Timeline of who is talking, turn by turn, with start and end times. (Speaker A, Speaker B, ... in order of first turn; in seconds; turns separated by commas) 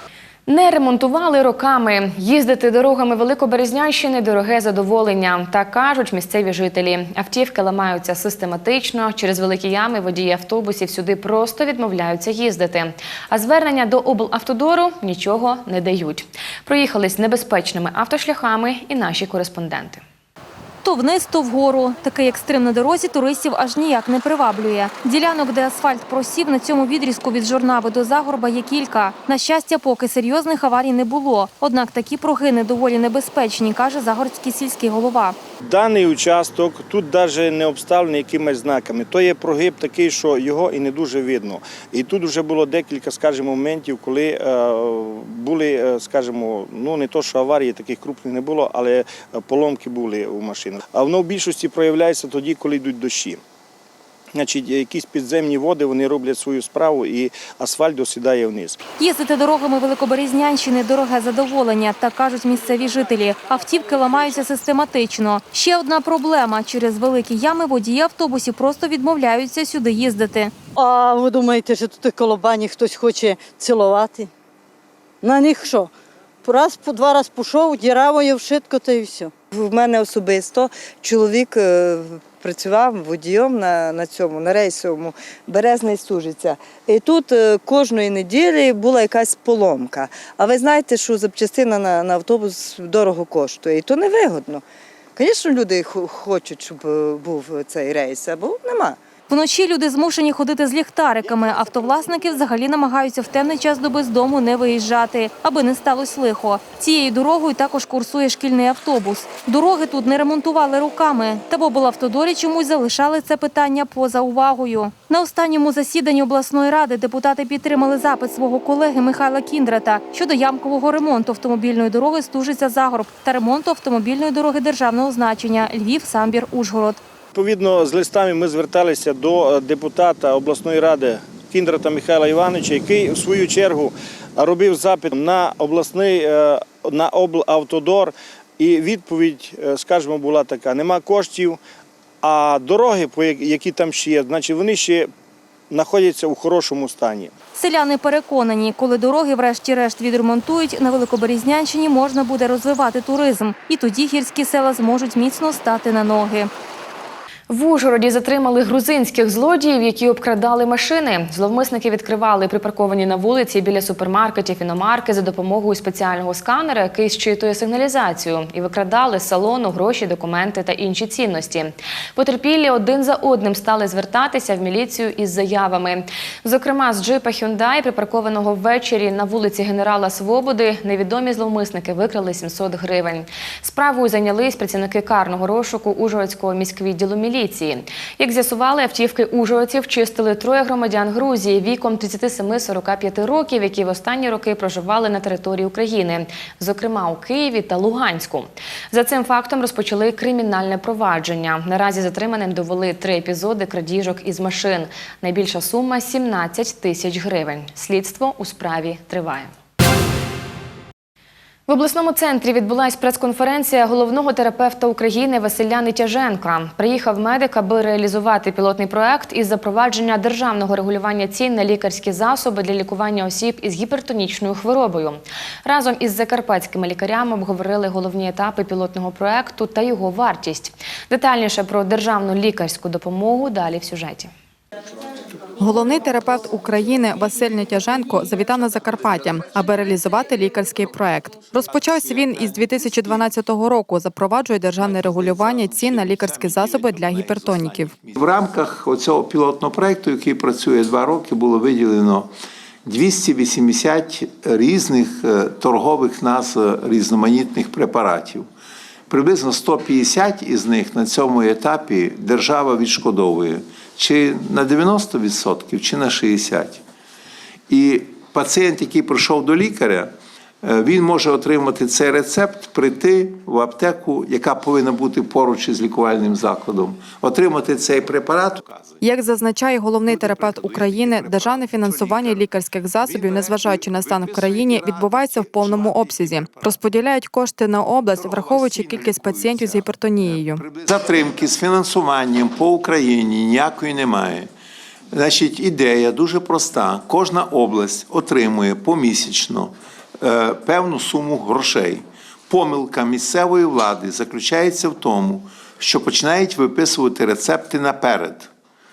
Speaker A: 0.5-20.0, Speaker B: 20.8-35.4, Speaker C: 35.7-53.4, Speaker C: 54.4-58.8, Speaker B: 59.0-70.5, Speaker D: 70.8-74.3, Speaker D: 75.2-75.9, Speaker D: 76.4-79.3, Speaker E: 79.5-94.6, Speaker E: 95.2-99.0, Speaker B: 99.3-127.0, Speaker C: 127.3-141.6, Speaker C: 142.2-145.1, Speaker C: 145.7-147.3, Speaker B: 147.6-156.5, Speaker A: 157.5-209.5, Speaker A: 211.7-234.3, Speaker F: 235.6-248.0, Speaker G: 241.7-243.2, Speaker G: 244.8-252.3, Speaker G: 252.8-258.5, Speaker G: 259.1-266.8, Speaker G: 267.7-279.0, Speaker F: 279.0-290.7, Speaker G: 280.1-282.5, Speaker G: 283.0-286.8, Speaker G: 288.1-294.5, Speaker G: 295.1-308.5